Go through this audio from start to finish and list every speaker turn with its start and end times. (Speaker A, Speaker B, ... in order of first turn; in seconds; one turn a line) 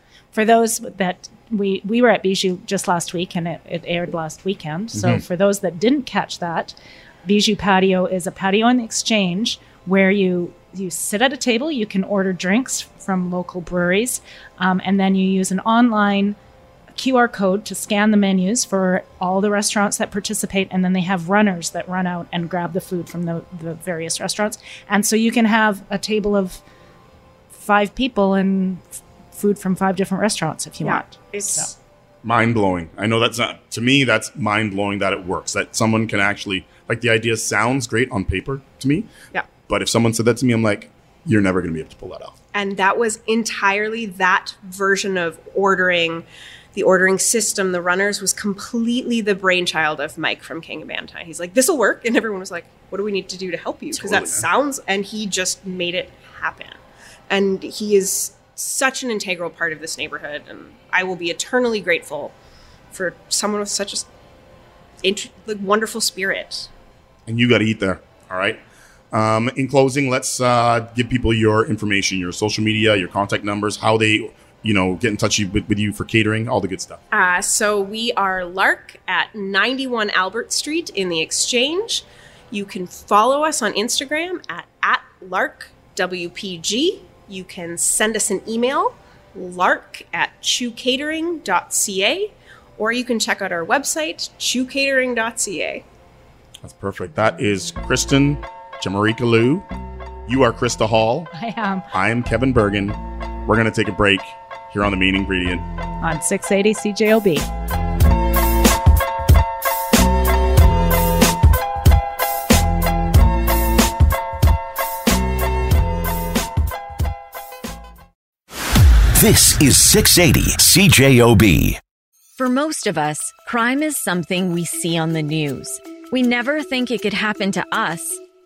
Speaker A: 0.3-16.4
Speaker B: 4.9-5.2
Speaker A: 17.0-26.6
Speaker A: 27.5-31.7
Speaker C: 30.8-31.7
Speaker B: 32.2-39.1
Speaker B: 39.7-42.4
Speaker C: 42.5-56.8
Speaker B: 53.9-54.5
Speaker C: 57.3-62.3
Speaker C: 62.9-64.1
Speaker C: 65.0-66.7
Speaker B: 67.3-77.0
Speaker C: 77.1-95.8
Speaker B: 96.6-99.7
Speaker B: 100.3-101.3
Speaker A: 101.3-101.9
Speaker B: 101.9-105.7
Speaker A: 106.0-107.5
Speaker D: 119.1-121.8
Speaker E: 122.4-128.2